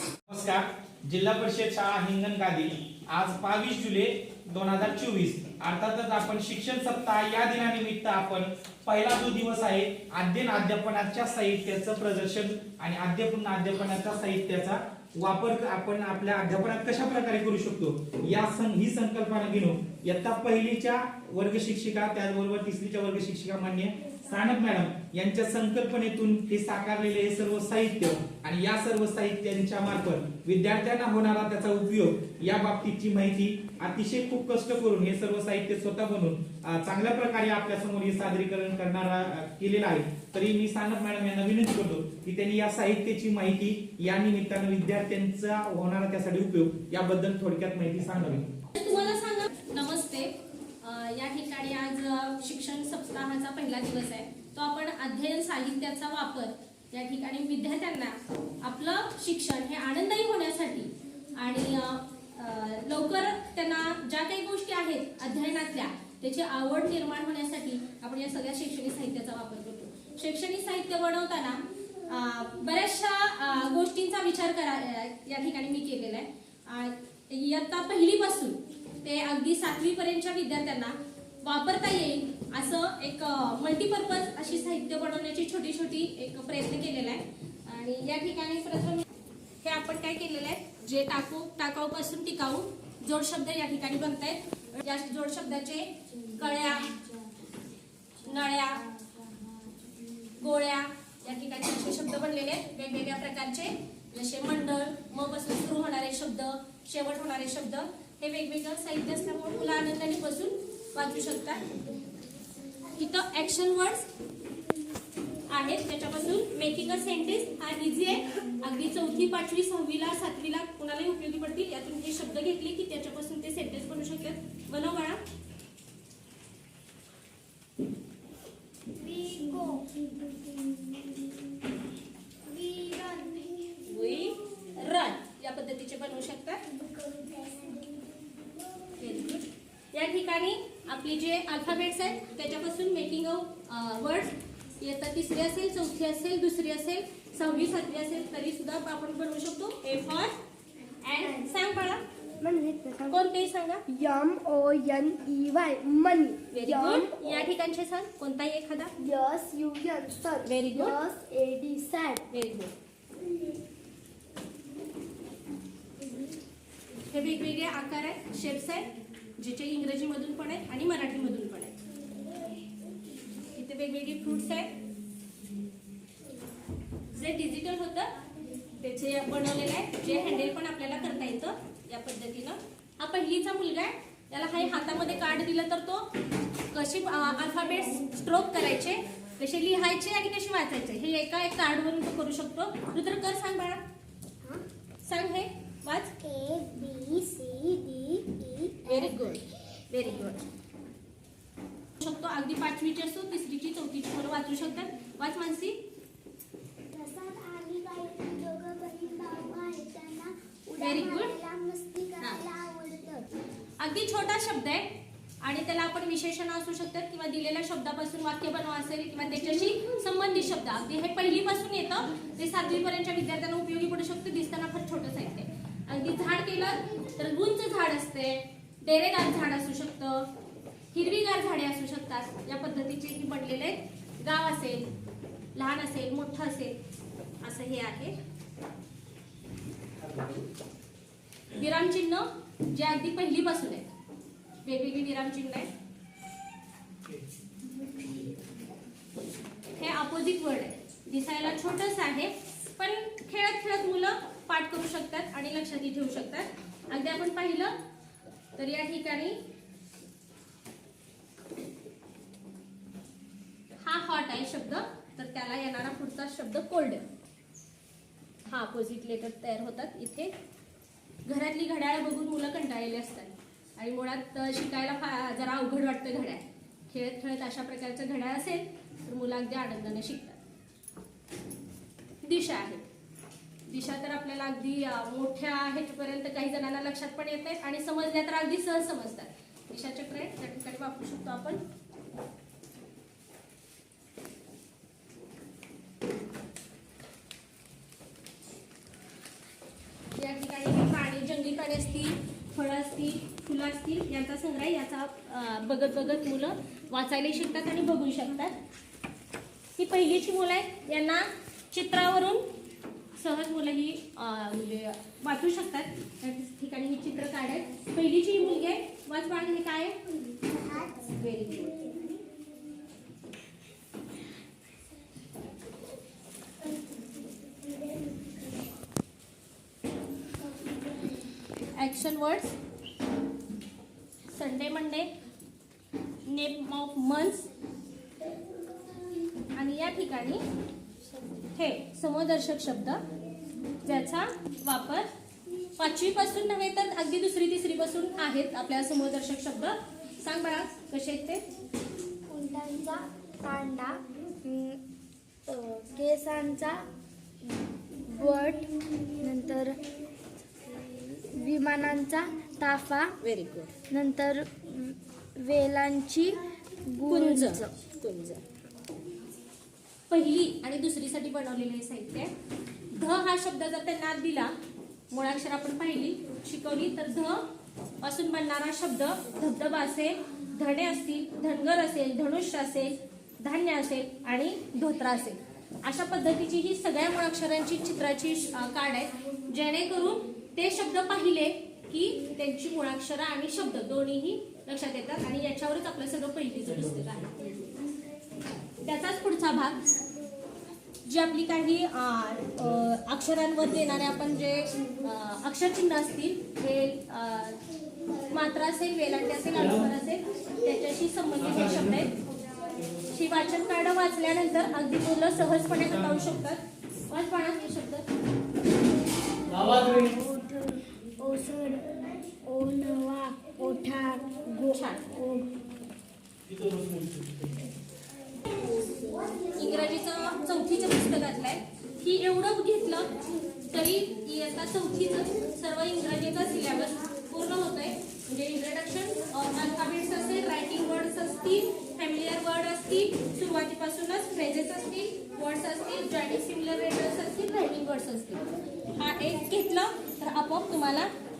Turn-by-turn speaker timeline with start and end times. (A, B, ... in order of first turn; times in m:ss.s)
0:00.3-0:48.4 A
0:48.7-1:29.0 B
1:29.6-1:37.0 B
1:38.2-1:38.9 B
1:40.3-1:51.6 B
1:52.9-1:54.1 B
1:55.5-2:05.2 B
2:09.0-2:11.5 C
2:12.5-2:13.9 C
2:13.8-2:16.6 B
2:16.7-2:19.0 C
2:19.0-2:30.4 B
2:31.0-2:32.0 B
2:32.4-2:33.2 C
2:33.1-2:33.8 B
2:33.9-2:37.2 C
2:36.5-2:38.9 B
2:39.0-2:42.2 C
2:40.4-2:41.0 B
2:42.3-2:42.7 B
2:47.1-2:51.8 B
2:53.5-2:54.7 B
2:57.1-2:58.1 B
2:58.7-3:06.1 B
3:06.7-3:13.8 B
3:15.0-3:16.2 B
3:16.2-3:19.0 C
3:18.8-3:20.5 B
3:22.0-3:25.8 B
3:26.9-3:33.3 C
3:30.8-3:31.4 B
3:33.8-3:50.3 B
3:50.9-3:54.9 B
3:55.5-3:56.8 B
3:57.4-3:58.2 B
4:01.5-4:03.9 B
4:04.6-4:05.7 B
4:09.7-4:17.7 B
4:18.6-4:19.4 B
4:23.8-4:27.1 B
4:28.5-4:30.3 B
4:31.2-4:40.4 B
4:42.2-4:42.9 B
4:43.7-4:51.6 B
5:00.1-5:08.6 B
5:09.8-5:12.4 B
5:13.1-5:20.0 B
5:20.8-5:22.0 B
5:31.7-5:32.5 B
5:34.3-5:35.1 B
5:36.2-5:37.5 B
5:39.5-5:40.4 B
5:41.5-5:43.0 B
5:43.8-5:45.1 B
5:45.8-5:51.4 B
5:52.3-5:54.8 C
5:55.5-5:56.8 C
5:58.1-5:59.8 C
6:00.7-6:03.1 C
6:03.2-6:03.7 B
6:03.9-6:07.7 C
6:07.1-6:08.4 B
6:10.1-6:12.3 B
6:12.9-6:14.5 B
6:15.1-6:17.4 B
6:18.0-6:37.8 B
6:38.8-6:39.8 B
6:41.0-6:47.6 B
6:48.1-6:52.1 B
6:53.1-6:58.1 B
6:59.4-7:05.6 C
7:04.5-7:05.2 B
7:09.5-7:13.1 B
7:13.7-7:31.1 B